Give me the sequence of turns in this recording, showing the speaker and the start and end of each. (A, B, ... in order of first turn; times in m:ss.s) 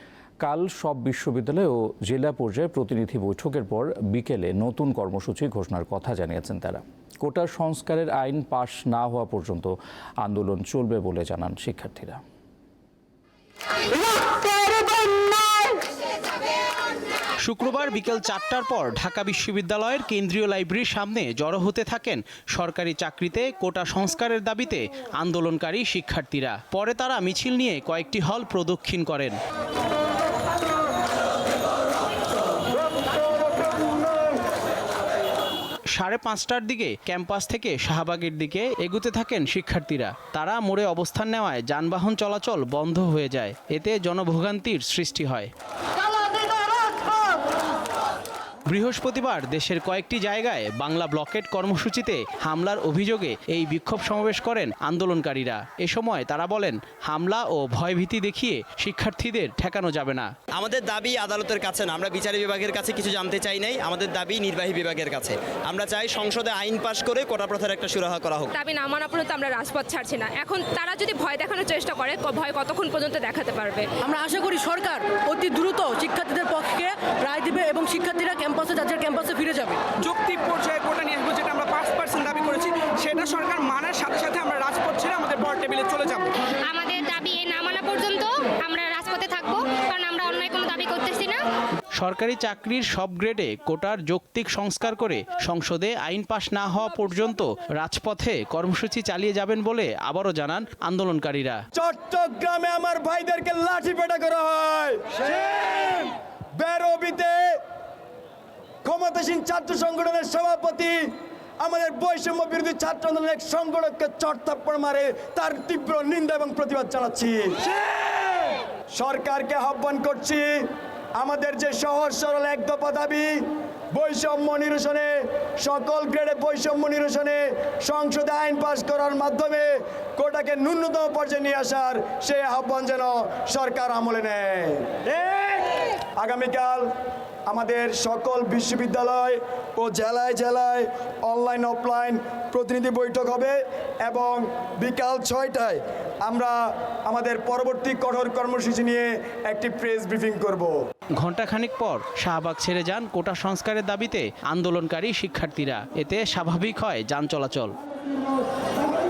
0:00.4-0:12.2 A
0:17.4-0:29.4 B
0:35.9-0:45.5 B
0:48.7-1:00.3 B
1:00.5-1:08.5 C
1:08.5-1:13.9 D
1:14.0-1:20.0 E
1:20.0-1:26.3 F
1:26.6-1:31.4 G
1:31.9-1:41.6 B
1:41.7-1:47.6 H
1:48.8-1:51.1 H
1:51.6-1:57.6 H
1:58.9-2:15.0 H
2:16.2-2:16.9 H
2:17.5-2:26.6 H
2:27.1-2:30.7 H
2:31.2-2:37.7 B